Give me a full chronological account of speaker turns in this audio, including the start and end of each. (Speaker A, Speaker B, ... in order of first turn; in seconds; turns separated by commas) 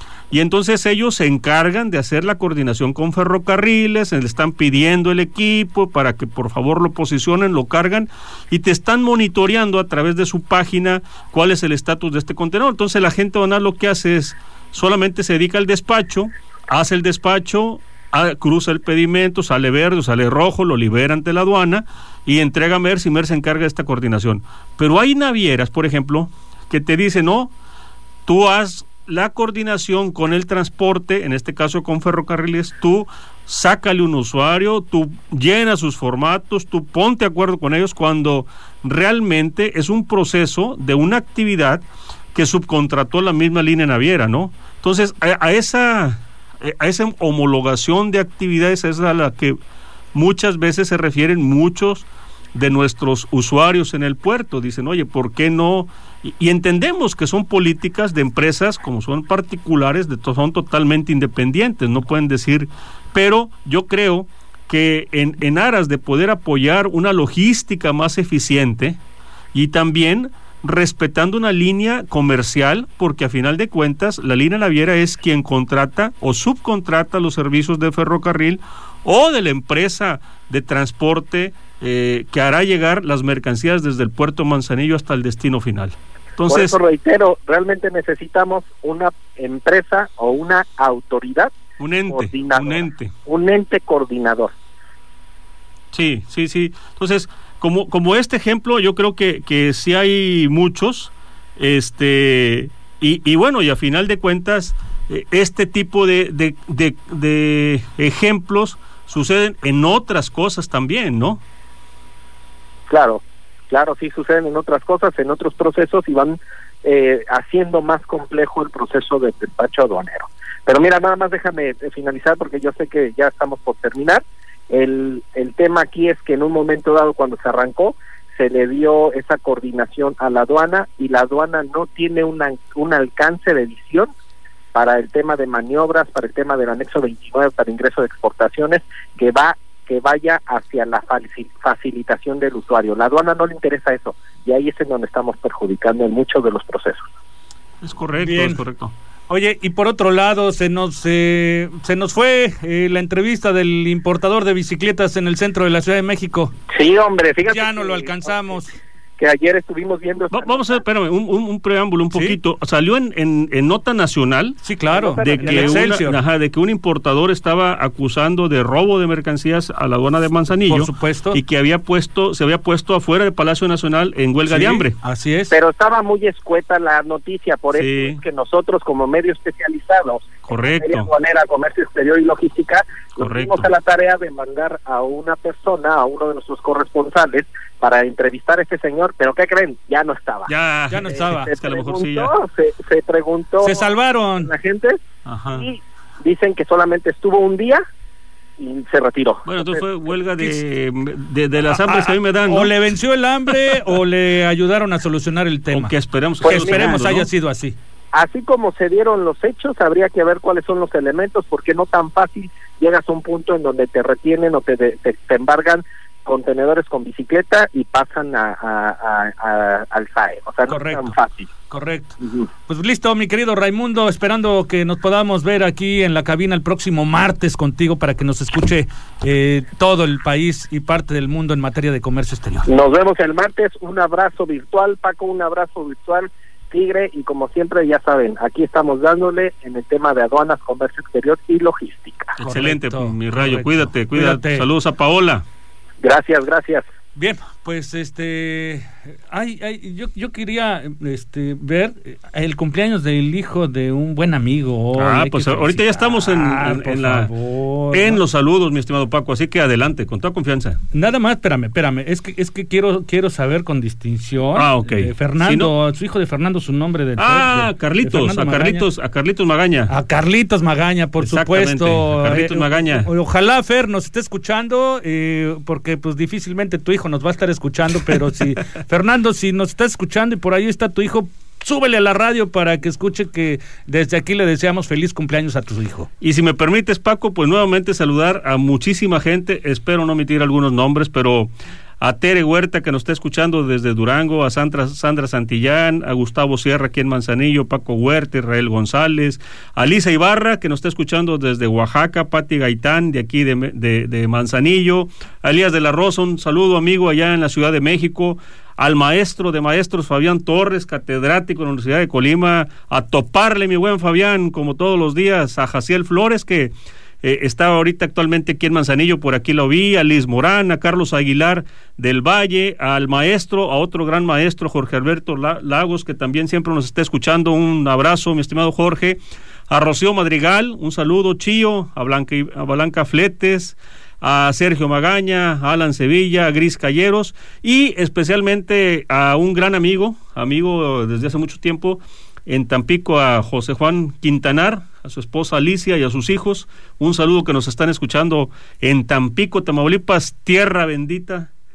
Speaker A: 0.3-27.5, Speaker A: 28.2-41.8, Speaker A: 42.3-49.6, Speaker A: 50.1-69.0, Speaker A: 69.5-86.8, Speaker B: 86.5-91.5, Speaker A: 91.8-93.1, Speaker B: 92.1-94.5, Speaker A: 95.9-111.4, Speaker B: 112.9-134.1, Speaker B: 134.7-147.1, Speaker A: 147.8-148.9, Speaker C: 148.2-148.6, Speaker C: 149.3-156.5, Speaker B: 156.7-158.6, Speaker C: 157.4-158.7, Speaker B: 159.2-160.8, Speaker A: 160.3-164.6, Speaker C: 162.1-162.4, Speaker C: 164.6-166.2, Speaker B: 164.9-165.9, Speaker A: 165.2-175.0, Speaker C: 170.7-171.4, Speaker C: 174.5-175.5, Speaker B: 175.5-190.5, Speaker A: 177.7-178.2, Speaker A: 180.4-181.1, Speaker A: 183.2-183.7, Speaker A: 190.5-192.3, Speaker C: 190.9-191.5, Speaker B: 191.1-195.0, Speaker C: 193.6-194.5, Speaker A: 195.2-195.7, Speaker B: 195.5-197.8, Speaker B: 198.6-199.8, Speaker A: 199.5-202.7, Speaker C: 201.7-207.8, Speaker A: 205.7-207.3, Speaker B: 206.4-207.0, Speaker B: 208.1-221.5, Speaker C: 220.7-221.1, Speaker C: 221.7-232.7, Speaker B: 232.7-242.4, Speaker A: 242.4-245.4, Speaker C: 242.4-244.7, Speaker B: 246.0-246.8, Speaker C: 247.2-258.2, Speaker A: 254.9-257.3, Speaker A: 257.9-260.8, Speaker C: 260.9-268.8, Speaker A: 264.6-265.7, Speaker A: 267.2-269.9, Speaker C: 269.9-286.1, Speaker A: 271.2-273.1, Speaker A: 286.2-316.7, Speaker A: 317.2-351.5